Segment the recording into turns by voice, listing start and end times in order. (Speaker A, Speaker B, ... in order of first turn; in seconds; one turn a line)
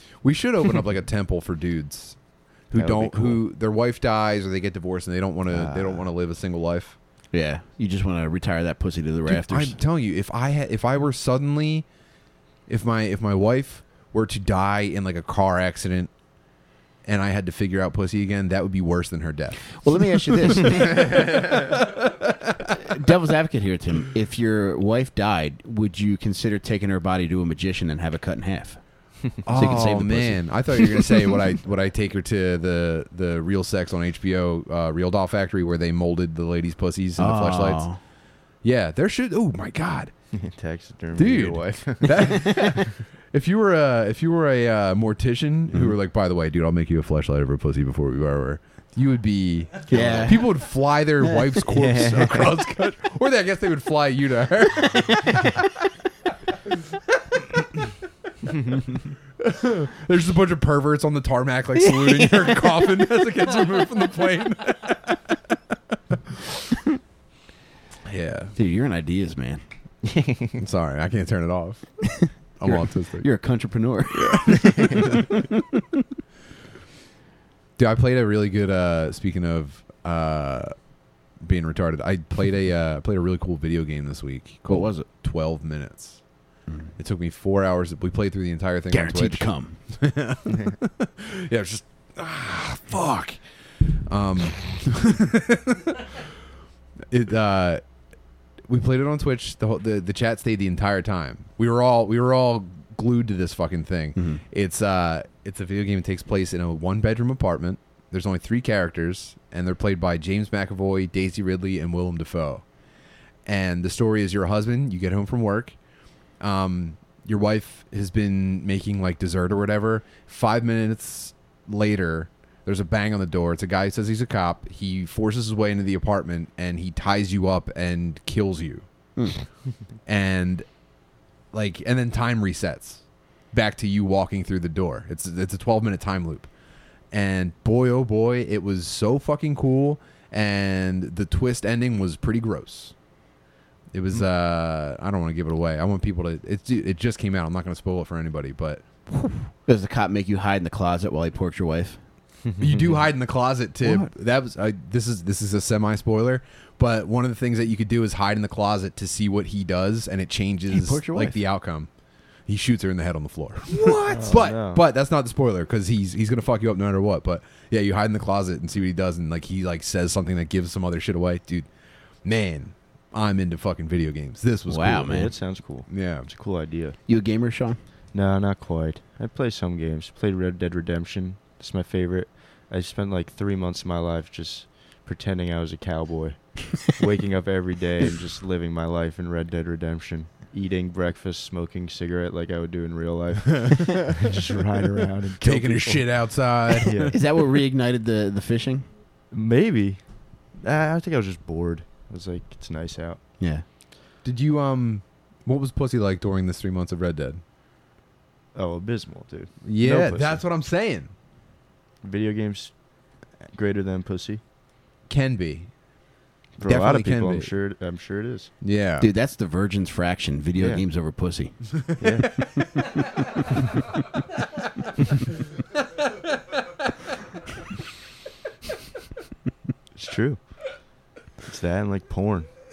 Speaker A: 0.2-7.0
Speaker B: 2.7-3.4
Speaker B: 5.5-6.1
Speaker C: 7.3-9.8
Speaker A: 9.2-11.9
Speaker A: 12.7-16.1
Speaker A: 17.0-22.1
Speaker C: 19.8-21.2
Speaker C: 22.8-31.3
Speaker A: 29.4-40.1
Speaker C: 37.2-38.0
Speaker B: 40.3-42.9
Speaker A: 41.1-55.7
Speaker C: 49.9-50.6
Speaker C: 51.2-52.4
Speaker A: 59.4-65.2
Speaker A: 68.0-68.5
Speaker C: 68.5-69.6
Speaker A: 70.6-73.3
Speaker C: 72.2-75.8
Speaker A: 74.5-75.2
Speaker A: 77.8-80.8
Speaker A: 81.3-86.4
Speaker C: 84.7-85.1
Speaker C: 86.7-86.9
Speaker A: 87.0-96.2
Speaker C: 88.9-89.8
Speaker A: 97.1-97.8
Speaker A: 98.6-112.7
Speaker C: 104.2-104.4
Speaker A: 113.4-115.8
Speaker A: 116.3-128.8
Speaker C: 129.2-129.4
Speaker A: 130.0-130.7
Speaker A: 131.5-136.5
Speaker A: 137.1-142.9
Speaker A: 143.9-149.1
Speaker C: 149.6-152.0
Speaker B: 152.5-153.0
Speaker A: 152.6-161.9
Speaker C: 160.7-161.4
Speaker A: 162.4-171.7
Speaker B: 163.8-164.8
Speaker A: 172.2-175.3
Speaker C: 174.7-175.3
Speaker B: 174.9-176.9
Speaker A: 175.9-176.3
Speaker C: 177.1-177.8
Speaker B: 178.1-197.2
Speaker A: 193.6-193.9
Speaker A: 195.4-197.1
Speaker C: 197.1-198.8
Speaker B: 199.3-203.2
Speaker C: 203.4-203.6
Speaker A: 204.2-207.4
Speaker B: 208.5-210.4
Speaker A: 209.6-211.1
Speaker B: 212.0-214.4
Speaker A: 215.1-215.9
Speaker B: 216.6-218.5
Speaker A: 216.6-217.5
Speaker A: 218.6-219.1
Speaker C: 219.0-222.0
Speaker B: 220.6-220.8
Speaker B: 222.0-222.4
Speaker B: 229.9-230.8
Speaker B: 231.4-232.6